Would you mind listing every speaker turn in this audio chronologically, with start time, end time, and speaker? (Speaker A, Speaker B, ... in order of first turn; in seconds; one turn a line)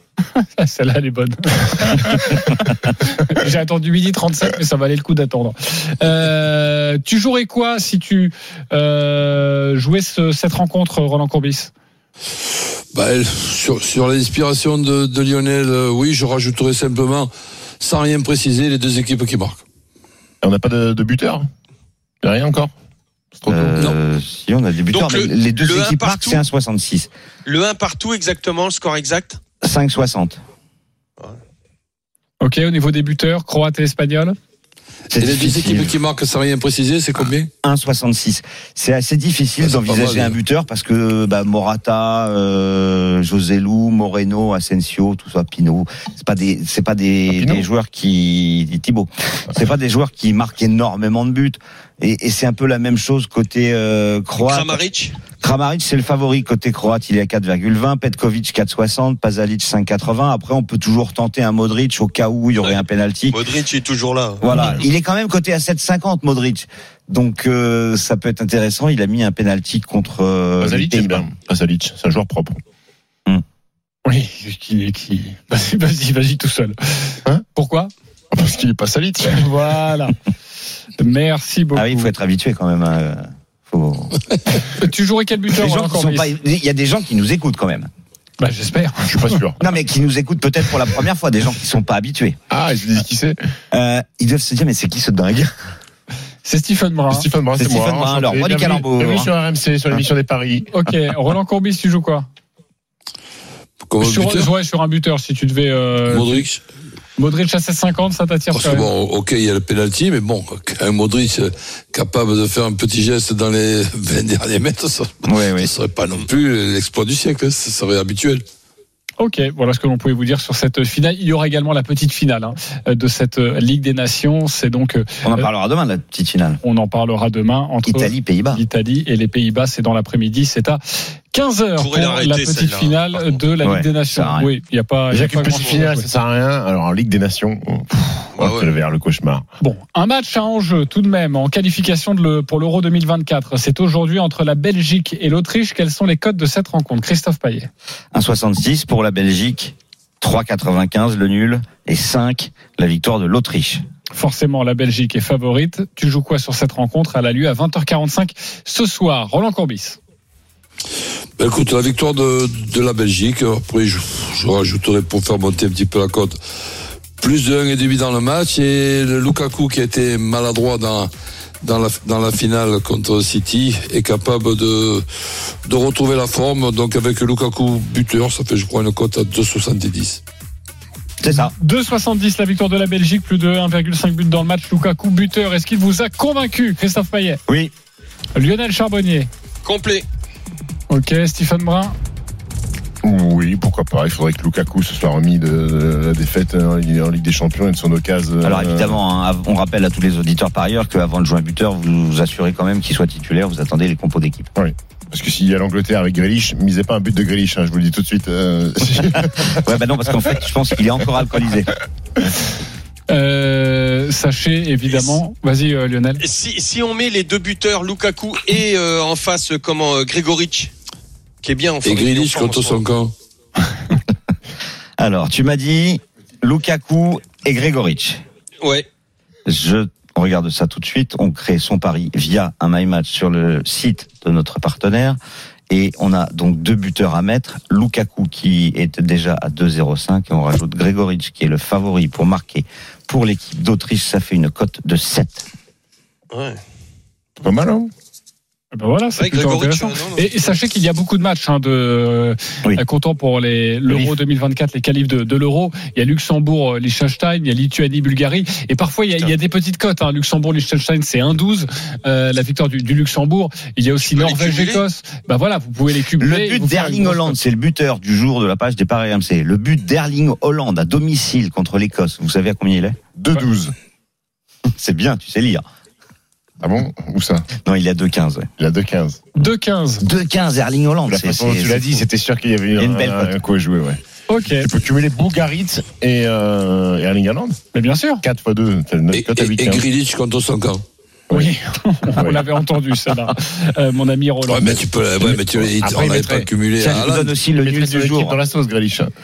Speaker A: 0.3-11.7
Speaker B: 12.9-19.6
Speaker C: 20.4-21.5
Speaker C: 22.2-22.7
Speaker C: 23.4-23.9
Speaker D: 23.5-27.1
Speaker E: 24.9-26.4
Speaker E: 27.5-29.4
Speaker D: 29.6-30.4
Speaker A: 32.4-34.4
Speaker D: 35.1-35.9
Speaker B: 35.2-37.5
Speaker D: 37.2-54.8
Speaker B: 39.7-40.4
Speaker C: 47.3-47.7
Speaker E: 54.5-55.1
Speaker D: 55.4-63.4
Speaker E: 62.6-64.8
Speaker D: 64.4-71.3
Speaker C: 64.5-64.8
Speaker C: 70.6-72.6
Speaker A: 74.1-77.9
Speaker C: 78.3-79.5
Speaker A: 79.3-80.2
Speaker A: 81.0-82.1
Speaker D: 81.8-84.6
Speaker A: 84.7-86.3
Speaker D: 85.5-87.9
Speaker A: 88.4-89.4
Speaker C: 89.0-89.6
Speaker D: 89.6-92.4
Speaker C: 92.5-93.4
Speaker D: 93.7-95.5
Speaker A: 96.4-97.3
Speaker C: 97.1-100.7
Speaker D: 97.6-99.3
Speaker A: 100.7-102.3
Speaker B: 103.8-104.5
Speaker A: 104.0-106.5
Speaker B: 106.1-106.6
Speaker A: 107.2-108.9
Speaker B: 108.5-118.5
Speaker D: 115.3-115.7
Speaker A: 119.2-125.5
Speaker D: 125.2-126.6
Speaker A: 126.6-130.8
Speaker D: 127.9-128.6
Speaker A: 131.3-136.1
Speaker E: 131.8-133.4
Speaker D: 133.6-134.5
Speaker C: 135.1-139.5
Speaker E: 138.4-138.7
Speaker A: 139.6-147.7
Speaker D: 148.1-153.8
Speaker A: 154.1-160.0
Speaker B: 161.4-166.4
Speaker B: 167.2-175.1
Speaker B: 175.7-180.2
Speaker D: 181.2-181.5
Speaker A: 181.6-187.4
Speaker A: 188.3-189.3
Speaker E: 189.7-190.1
Speaker A: 190.9-192.0
Speaker C: 193.0-199.0
Speaker D: 198.4-204.5
Speaker C: 204.6-209.6
Speaker D: 209.6-211.8
Speaker A: 213.1-216.2
Speaker E: 216.2-220.7
Speaker E: 221.4-222.8
Speaker B: 221.8-223.1
Speaker D: 225.0-228.2
Speaker D: 229.5-235.2
Speaker D: 235.7-245.4
Speaker E: 246.3-246.6
Speaker C: 247.4-247.9
Speaker A: 248.7-267.4
Speaker E: 249.2-250.5
Speaker E: 264.0-264.8
Speaker D: 266.2-273.0
Speaker C: 273.2-273.7
Speaker D: 274.8-275.6
Speaker C: 276.6-277.5
Speaker D: 277.5-278.5
Speaker C: 278.6-279.3
Speaker A: 279.4-280.1
Speaker D: 280.0-282.0
Speaker C: 281.1-284.0
Speaker D: 282.8-283.3
Speaker A: 284.3-284.7
Speaker C: 284.5-287.6
Speaker A: 287.7-288.2
Speaker C: 288.2-289.9
Speaker B: 289.1-290.9
Speaker C: 291.3-291.6
Speaker A: 291.3-294.8
Speaker C: 292.1-292.5
Speaker B: 294.5-297.3
Speaker C: 294.6-296.5
Speaker D: 296.8-298.4
Speaker C: 297.5-299.1